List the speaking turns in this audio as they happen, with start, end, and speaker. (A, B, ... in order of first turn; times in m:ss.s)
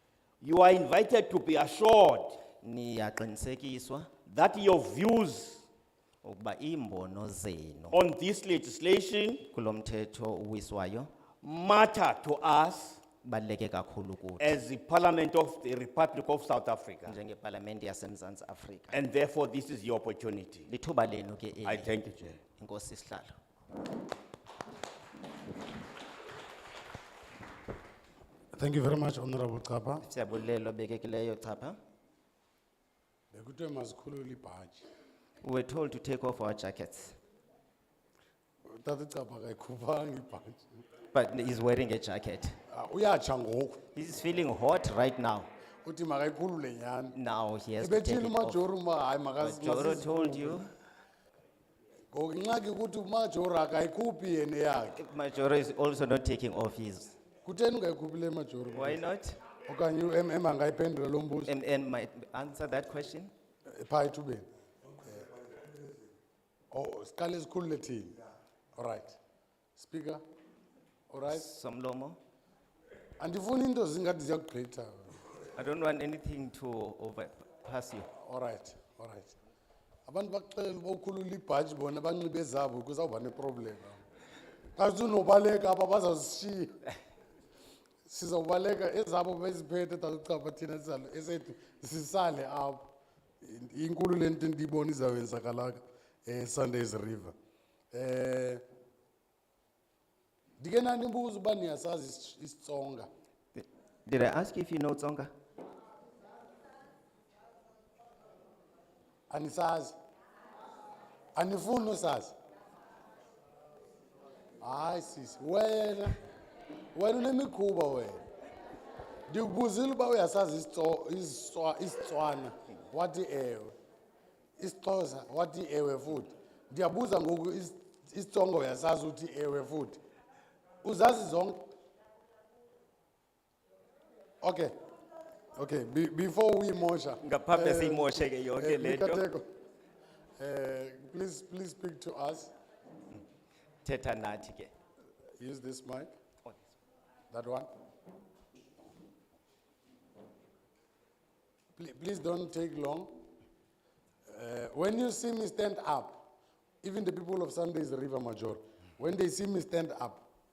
0:00.4-0:02.4 A
0:02.6-0:04.1 B
0:04.2-0:05.6 A
0:06.2-0:08.0 B
0:07.9-0:09.4 A
0:09.5-0:11.1 B
0:11.4-0:13.0 A
0:13.2-0:14.6 B
0:14.4-0:17.2 A
0:17.0-0:19.0 B
0:18.9-0:20.7 A
0:20.7-0:21.9 B
0:21.6-0:22.4 A
0:22.6-0:23.3 B
0:28.5-0:30.0 C
0:30.0-0:31.8 B
0:33.3-0:34.8 C
0:35.4-0:37.2 B
0:38.7-0:40.7 C
0:41.1-0:42.6 B
0:42.7-0:43.8 C
0:43.9-0:45.5 B
0:45.8-0:47.2 C
0:47.1-0:48.6 B
0:47.8-0:50.6 C
0:49.4-0:50.7 B
0:52.1-0:55.0 C
0:54.9-0:57.2 B
0:57.4-0:59.0 C
0:58.7-0:59.4 B
0:59.6-1:01.5 C
1:01.4-1:03.3 B
1:03.7-1:04.4 C
1:05.0-1:05.3 C
1:06.7-1:08.2 C
1:08.8-1:09.2 C
1:09.8-1:10.2 C
1:11.1-1:11.5 C
1:11.3-1:12.2 B
1:13.2-1:15.1 C
1:15.5-1:18.1 B
1:18.2-1:19.3 C
1:20.1-1:24.0 C
1:24.8-1:26.8 C
1:28.0-1:37.3 C
1:37.9-1:38.6 C
1:40.6-1:43.1 C
1:43.5-1:45.3 B
1:49.3-1:49.9 C
1:51.3-1:52.3 C
1:54.6-1:56.2 C
1:56.9-1:58.2 C
1:59.3-2:03.7 C
2:04.6-2:10.0 C
2:10.8-2:11.6 C
2:14.4-2:14.7 C
2:15.6-2:19.5 C
2:17.2-2:19.2 B
2:20.4-2:22.5 C
2:23.8-2:24.7 B
2:25.4-2:26.1 C
2:27.3-2:27.7 C
2:31.8-2:33.2 C
2:34.3-2:40.2 C